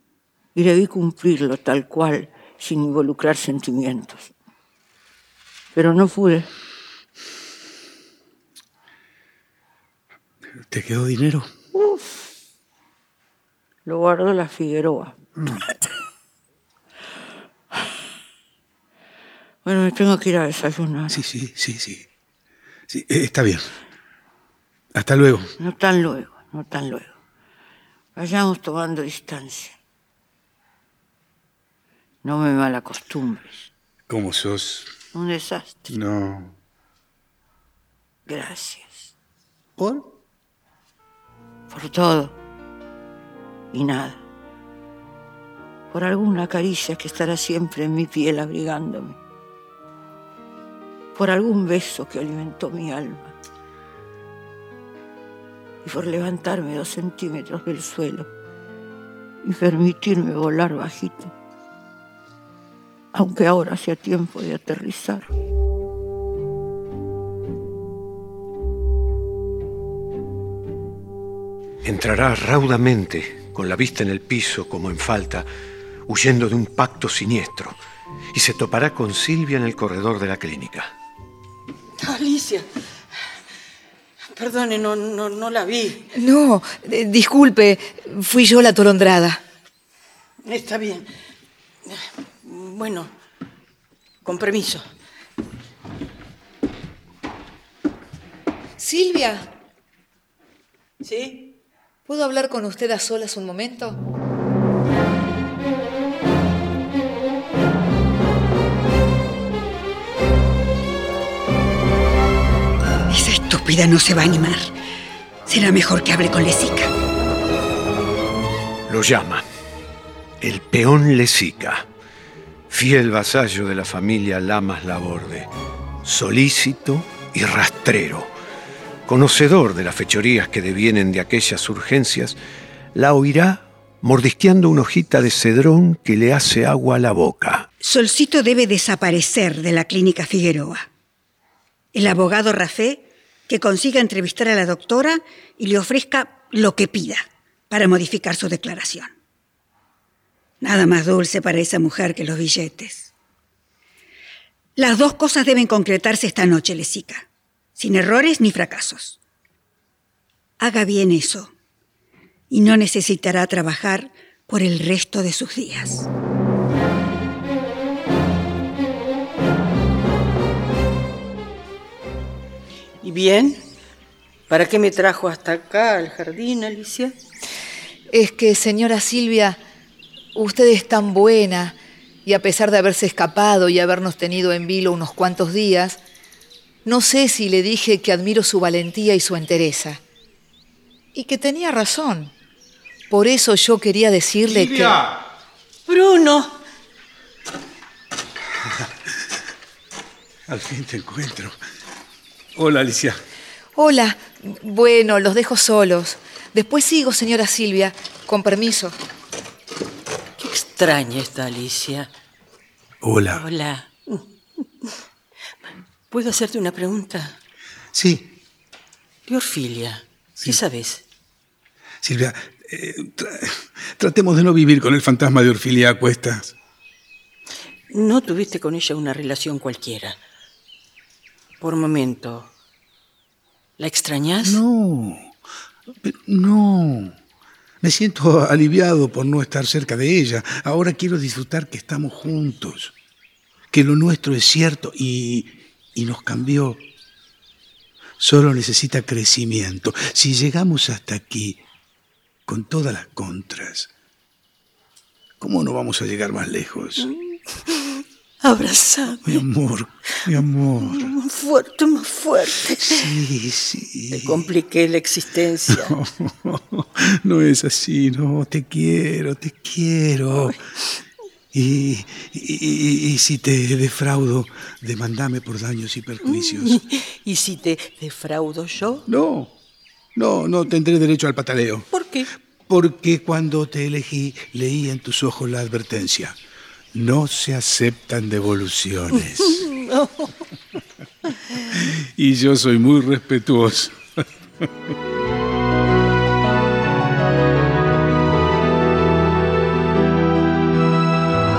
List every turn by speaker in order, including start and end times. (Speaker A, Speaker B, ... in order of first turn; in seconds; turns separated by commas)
Speaker A: 0.6-4.3, Speaker A: 5.7-6.5, Speaker B: 10.6-11.5, Speaker A: 11.8-12.2, Speaker A: 13.9-15.7, Speaker A: 19.6-21.2, Speaker B: 21.1-22.1, Speaker B: 22.9-23.7, Speaker B: 24.9-25.5, Speaker A: 25.6-27.1, Speaker A: 28.2-29.8, Speaker A: 32.2-33.7, Speaker B: 34.1-34.9, Speaker A: 35.1-35.9, Speaker B: 35.9-36.5, Speaker A: 38.3-39.1, Speaker B: 39.8-40.1, Speaker A: 41.7-42.4, Speaker A: 43.7-44.2, Speaker A: 45.9-49.2, Speaker A: 51.1-53.3, Speaker A: 55.8-58.3, Speaker A: 59.4-61.3, Speaker A: 63.1-65.3, Speaker C: 71.8-75.5, Speaker C: 76.1-77.8, Speaker C: 78.3-80.9, Speaker D: 82.0-82.7, Speaker D: 84.3-86.1, Speaker E: 86.2-89.4, Speaker D: 90.4-91.1, Speaker D: 91.8-93.1, Speaker D: 94.2-94.9, Speaker E: 98.8-99.5, Speaker D: 101.0-101.5, Speaker E: 102.1-104.0, Speaker F: 113.1-114.7, Speaker F: 115.5-116.9, Speaker C: 118.9-119.5, Speaker C: 120.4-121.9, Speaker C: 122.7-125.5, Speaker C: 126.0-128.3, Speaker C: 129.1-132.4, Speaker C: 132.9-137.7, Speaker F: 137.8-140.9, Speaker F: 141.9-149.1, Speaker F: 150.6-153.1, Speaker F: 154.8-159.2, Speaker F: 160.6-161.5, Speaker F: 162.5-166.1, Speaker D: 173.0-173.6, Speaker D: 174.5-177.2, Speaker E: 178.1-179.6, Speaker E: 180.3-186.0, Speaker E: 186.8-190.0, Speaker E: 191.2-192.3, Speaker E: 193.1-195.0, Speaker B: 194.5-195.2, Speaker D: 195.9-196.6, Speaker B: 200.5-201.6, Speaker B: 202.6-203.2, Speaker E: 203.8-208.9, Speaker D: 210.4-212.1, Speaker B: 213.0-213.4, Speaker D: 213.3-214.3, Speaker D: 216.1-217.4, Speaker B: 217.9-218.3, Speaker D: 219.3-221.0, Speaker B: 222.0-226.5, Speaker D: 227.9-230.2, Speaker D: 231.6-232.5, Speaker D: 233.8-234.6, Speaker B: 234.4-235.4, Speaker B: 236.0-237.1, Speaker B: 237.8-242.9, Speaker B: 243.7-246.8, Speaker B: 248.2-251.6, Speaker B: 252.5-253.9, Speaker B: 255.4-257.1, Speaker D: 257.0-259.4, Speaker B: 259.2-261.1, Speaker D: 260.8-263.2, Speaker B: 262.8-264.5, Speaker D: 264.1-266.0, Speaker B: 265.7-270.6, Speaker B: 271.5-276.8, Speaker D: 276.2-279.1, Speaker B: 279.1-279.5, Speaker B: 280.1-281.9, Speaker D: 281.9-282.3, Speaker B: 282.7-286.4, Speaker B: 286.9-289.7, Speaker D: 289.1-290.3, Speaker B: 291.8-294.2